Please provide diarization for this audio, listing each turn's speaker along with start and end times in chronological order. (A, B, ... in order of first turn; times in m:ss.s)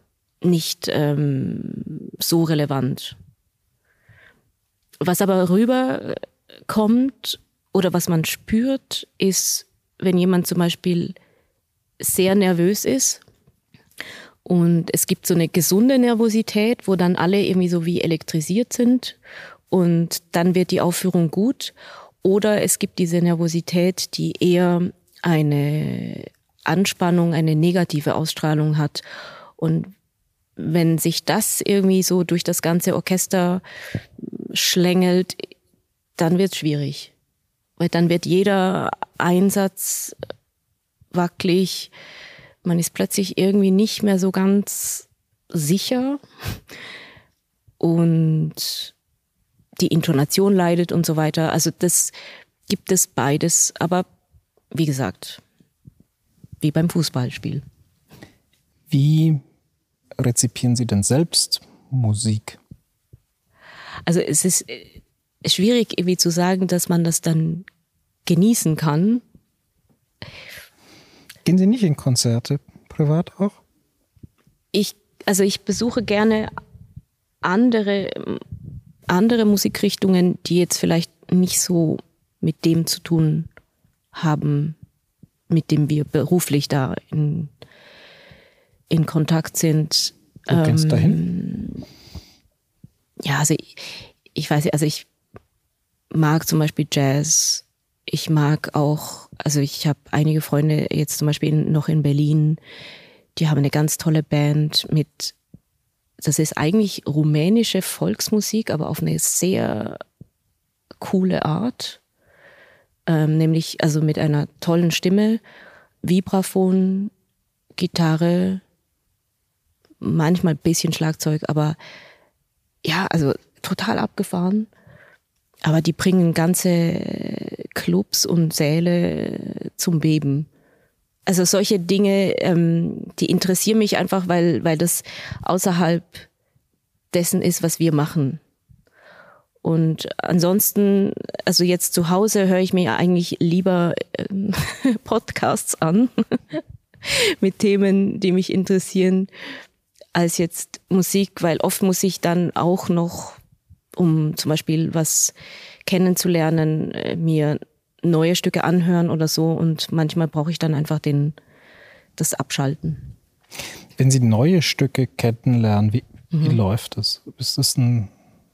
0:00.4-0:03.2 A
0:05.0-0:11.2 A
0:12.0-0:13.2 A
0:14.4-0:19.2 A
0:19.7-0:29.0 A
0:29.6-0:29.9 A
0:30.6-0:33.6 A
0:34.2-0:35.5 A
0:36.2-0:37.1 A
0:37.8-0:40.2 A
0:41.1-0:41.9 A
0:42.6-0:46.2 A
0:47.8-0:48.9 A
0:49.8-0:52.1 A
0:52.7-0:54.1 A
0:54.7-0:55.4 A
0:56.6-0:57.6 A
0:58.9-0:59.4 B
1:00.2-1:02.6 B
1:04.1-1:04.9 A
1:05.4-1:07.7 A
1:08.3-1:09.2 A
1:11.4-1:13.6 B
1:14.7-1:16.5 A
1:17.4-1:18.4 A
1:19.1-1:23.5 A
1:24.1-1:24.8 A
1:25.5-1:27.5 A
1:28.9-1:31.8 A
1:30.5-1:31.2 B
1:33.2-1:35.1 A
1:36.1-1:42.6 A
1:43.4-1:45.4 A
1:46.2-1:50.0 A
1:51.0-1:52.0 A
1:53.1-1:55.4 A
1:56.0-1:57.1 A
1:57.8-1:58.6 A
2:00.0-2:01.8 A
2:02.8-2:04.7 A
2:05.6-2:10.5 A
2:11.3-2:16.3 A
2:17.1-2:18.4 A
2:19.6-2:29.3 A
2:30.1-2:33.4 A
2:34.0-2:35.4 A
2:35.9-2:41.4 A
2:42.2-2:43.1 A
2:44.0-2:48.1 B